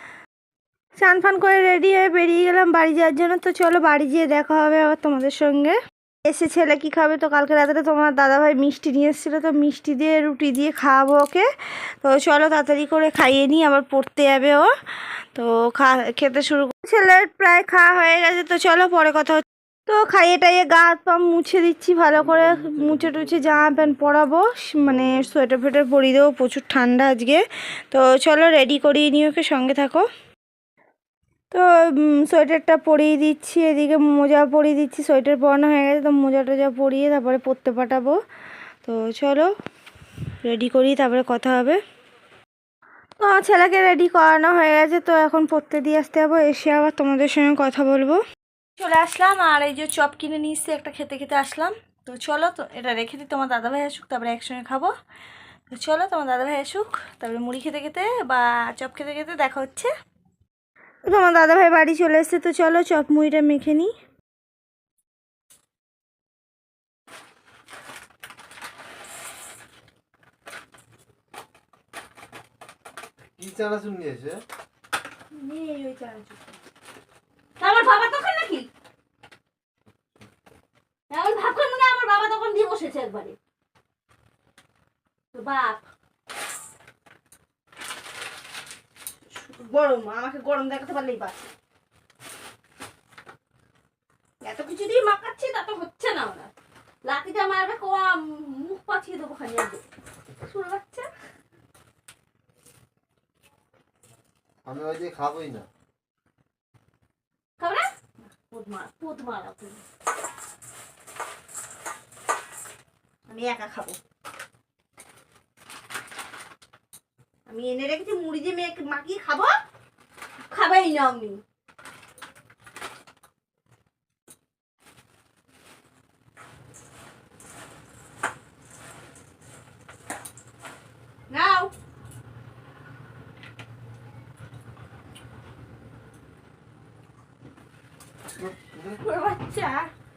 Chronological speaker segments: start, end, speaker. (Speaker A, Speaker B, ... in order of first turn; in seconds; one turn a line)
Speaker A: 1.0-30.1
Speaker B: 22.5-23.3
Speaker A: 31.5-38.2
Speaker A: 38.8-39.5
Speaker A: 40.4-41.8
Speaker A: 43.2-48.2
Speaker A: 48.8-54.9
Speaker A: 55.7-59.9
Speaker A: 61.0-63.9
Speaker B: 73.4-74.4
Speaker A: 75.3-76.3
Speaker C: 77.6-78.7
Speaker C: 81.1-83.4
Speaker C: 85.3-85.8
Speaker C: 89.3-91.5
Speaker C: 94.4-96.5
Speaker C: 97.0-99.8
Speaker C: 100.4-101.1
Speaker B: 104.6-105.7
Speaker C: 107.6-109.8
Speaker C: 113.3-114.0
Speaker C: 117.5-119.6
Speaker C: 120.5-121.4
Speaker C: 131.3-131.7
Speaker B: 138.3-139.0
Speaker C: 139.0-139.9